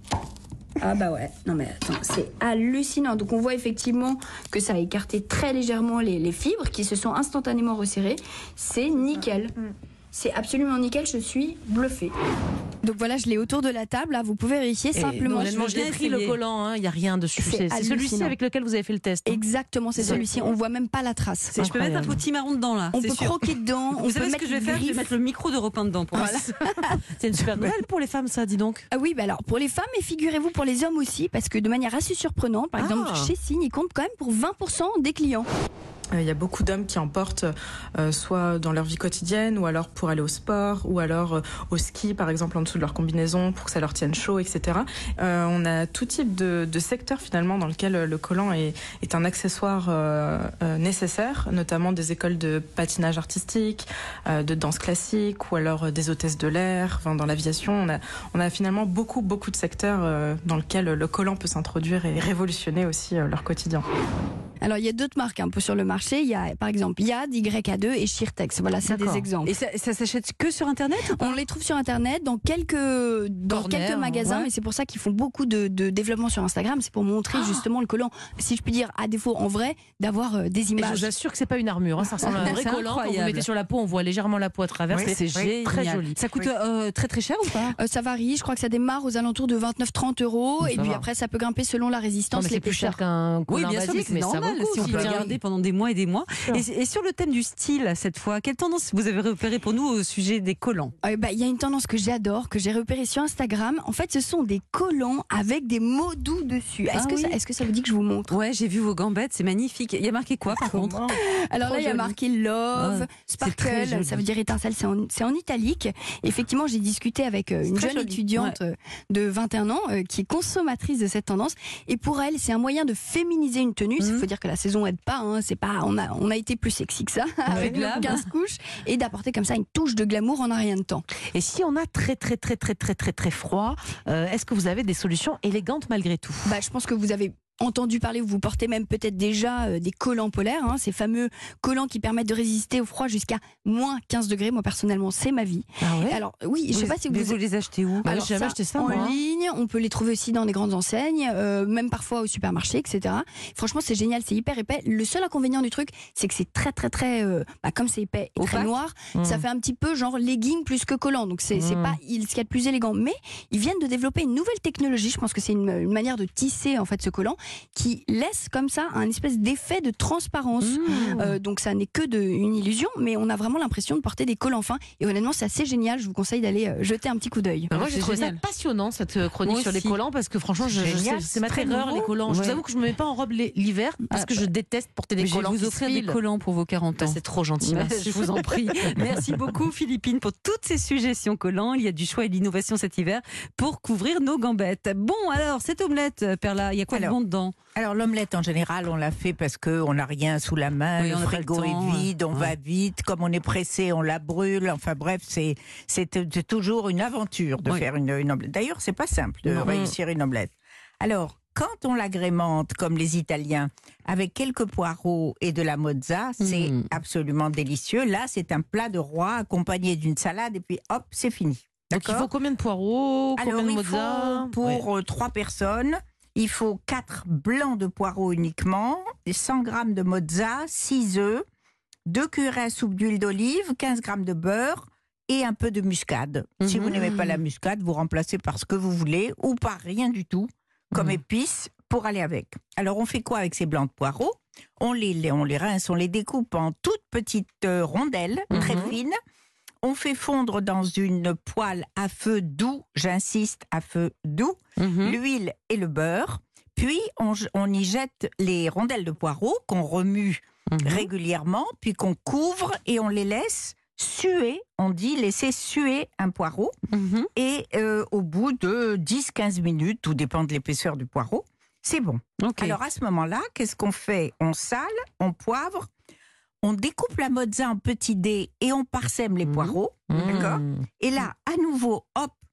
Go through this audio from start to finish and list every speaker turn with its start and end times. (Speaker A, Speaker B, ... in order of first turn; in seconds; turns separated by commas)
Speaker A: 0.8-9.5, Speaker A: 10.1-12.1, Speaker A: 12.8-15.6, Speaker B: 14.9-19.4, Speaker C: 15.3-16.4, Speaker A: 17.4-18.3, Speaker A: 19.2-21.5, Speaker C: 20.1-20.4, Speaker C: 21.5-26.4, Speaker B: 21.6-22.2, Speaker A: 22.9-25.1, Speaker A: 26.2-26.5, Speaker B: 27.1-28.9, Speaker A: 28.9-35.5, Speaker C: 32.8-33.3, Speaker D: 36.1-63.9, Speaker A: 64.6-69.5, Speaker C: 68.8-71.4, Speaker A: 71.1-81.1, Speaker B: 73.5-74.5, Speaker C: 77.3-77.6, Speaker B: 80.8-86.2, Speaker A: 82.2-82.6, Speaker C: 82.3-83.4, Speaker C: 85.0-87.8, Speaker A: 87.8-93.0, Speaker B: 90.6-91.0, Speaker B: 92.3-95.3, Speaker C: 93.5-100.9, Speaker A: 94.8-95.3, Speaker A: 101.0-108.3, Speaker C: 106.9-107.3, Speaker C: 108.3-112.1, Speaker A: 111.0-131.0, Speaker C: 112.8-114.2, Speaker C: 117.7-118.5, Speaker C: 124.0-124.2, Speaker B: 127.5-128.2, Speaker C: 127.5-128.2, Speaker B: 131.3-136.5, Speaker A: 136.4-147.4, Speaker B: 145.8-146.2, Speaker C: 146.7-148.1, Speaker A: 148.0-177.7, Speaker B: 148.0-149.1, Speaker C: 158.4-158.7, Speaker B: 159.1-159.4, Speaker B: 161.5-161.9, Speaker C: 170.6-171.3, Speaker B: 170.9-171.2, Speaker C: 177.7-178.4, Speaker B: 177.7-186.2, Speaker C: 179.4-180.0, Speaker E: 180.6-182.1, Speaker C: 182.3-182.6, Speaker C: 184.2-184.4, Speaker C: 185.2-197.5, Speaker B: 187.0-188.9, Speaker E: 196.9-197.2, Speaker E: 197.7-222.3, Speaker C: 201.0-202.5, Speaker C: 209.5-209.9, Speaker C: 216.4-216.9, Speaker B: 221.9-224.8, Speaker E: 223.4-231.4, Speaker E: 232.1-249.2, Speaker C: 236.6-237.0, Speaker C: 248.5-248.8, Speaker B: 248.5-248.9, Speaker E: 249.8-266.7, Speaker C: 254.8-255.2, Speaker C: 260.7-261.1, Speaker C: 266.9-267.3, Speaker E: 267.4-275.9, Speaker C: 272.4-272.8, Speaker E: 276.6-282.4, Speaker C: 279.5-280.5, Speaker B: 280.1-280.8